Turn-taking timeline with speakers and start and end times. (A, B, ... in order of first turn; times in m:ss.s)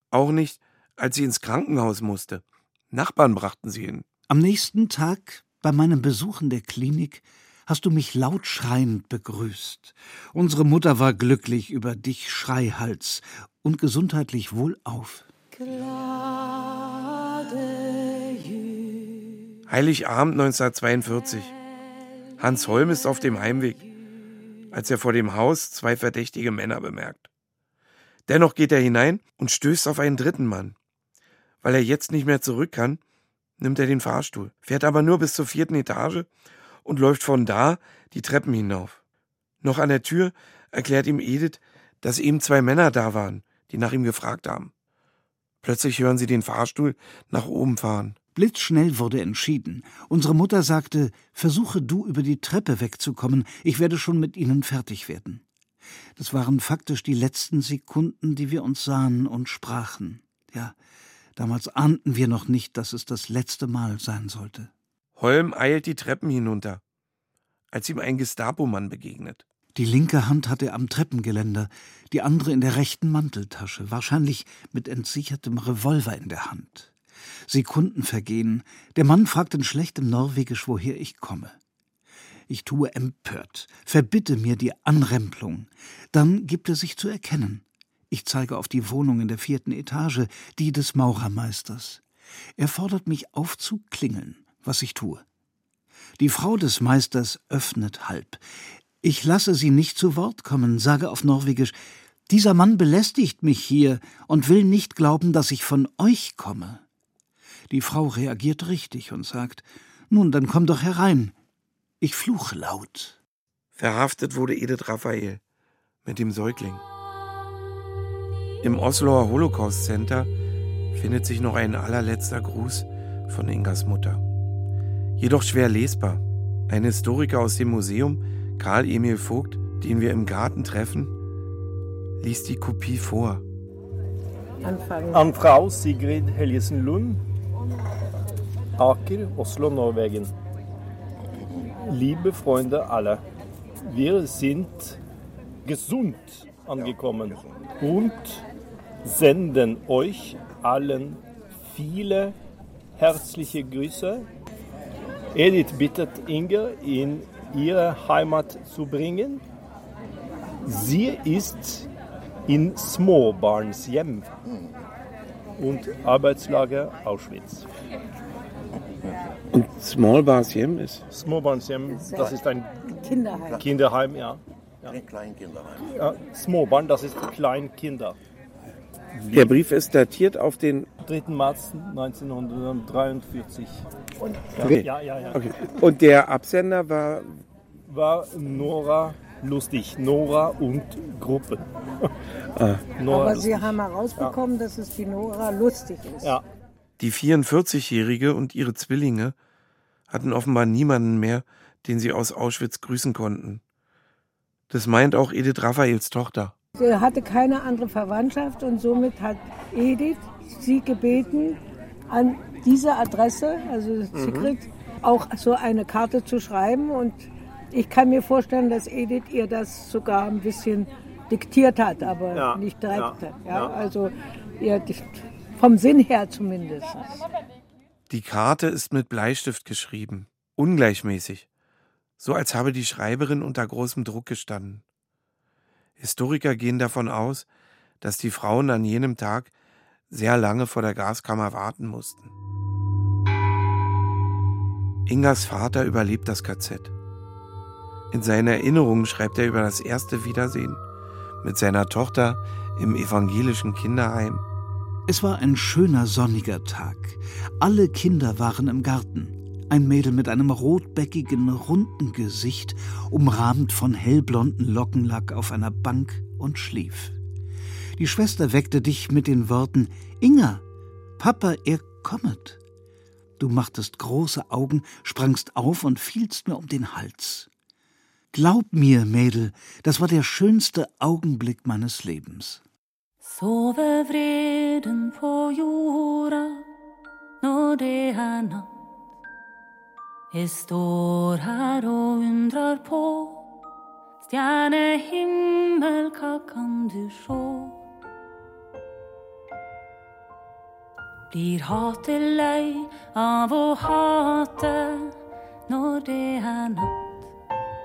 0:00.1-0:04.0 A
0:04.3-0:15.3 B
0:15.5-0:19.3 C
0:19.7-0:21.5 A
0:22.4-0:23.8 A
0:24.7-0:27.3 A
0:28.3-0:30.8 A
0:31.6-0:33.0 A
0:33.6-0:36.3 A
0:36.8-0:39.0 A
0:39.6-0:44.7 A
0:45.6-0:48.2 A
0:48.3-0:55.4 B
0:56.2-1:00.8 B
1:01.4-1:04.7 B
1:05.2-1:06.8 A
1:07.7-1:09.4 A
1:09.7-1:16.9 B
1:17.5-1:21.5 B
1:22.5-1:32.0 B
1:32.6-1:35.2 B
1:36.2-1:38.4 B
1:39.0-1:41.7 B
1:42.3-1:46.8 B
1:47.7-1:51.3 B
1:52.0-1:53.2 B
1:53.8-1:55.4 A
1:56.0-1:56.8 A
1:58.6-2:00.3 A
2:00.9-2:04.2 A
2:05.2-2:11.1 A
2:12.2-2:13.4 A
2:14.6-2:15.4 D
2:15.1-2:17.2 E
2:18.8-2:20.3 E
2:21.9-2:23.2 E
2:23.9-2:25.0 E
2:25.6-2:28.4 E
2:29.0-2:32.4 E
2:33.0-2:34.2 E
2:35.3-2:39.4 E
2:40.6-2:41.9 E
2:42.5-2:44.3 E
2:45.6-2:47.7 E
2:49.5-2:51.0 A
2:51.1-2:52.7 E
2:51.9-2:52.4 D
2:52.9-2:53.6 D
2:53.6-2:55.0 E
2:55.8-2:58.2 E
2:59.2-2:59.5 E
2:59.3-3:00.9 A
3:01.0-3:03.8 E
3:04.2-3:04.5 D
3:04.6-3:05.4 E
3:04.6-3:07.4 A
3:07.9-3:11.6 E
3:12.6-3:12.8 A
3:13.0-3:14.4 E
3:13.1-3:16.4 D
3:17.0-3:19.3 A
3:20.1-3:23.6 A
3:24.7-3:26.5 A
3:26.8-3:47.2 D
3:34.1-3:34.5 E
3:42.3-3:43.7 E
3:48.1-3:51.5 A
3:52.2-3:54.8 A
3:56.0-3:57.4 A
3:58.0-3:59.5 A
4:00.1-4:02.3 A
4:05.0-4:06.9 A
4:08.1-4:10.8 A
4:11.4-4:14.4 A
4:15.1-4:27.2 B
4:28.0-4:30.6 B
4:31.2-4:32.6 B
4:33.4-4:37.5 B
4:38.3-4:42.6 B
4:43.2-4:46.6 C
4:47.4-4:48.7 C
4:50.3-4:53.4 C
4:54.2-4:57.8 C
5:01.3-5:05.1 C
5:05.7-5:07.1 C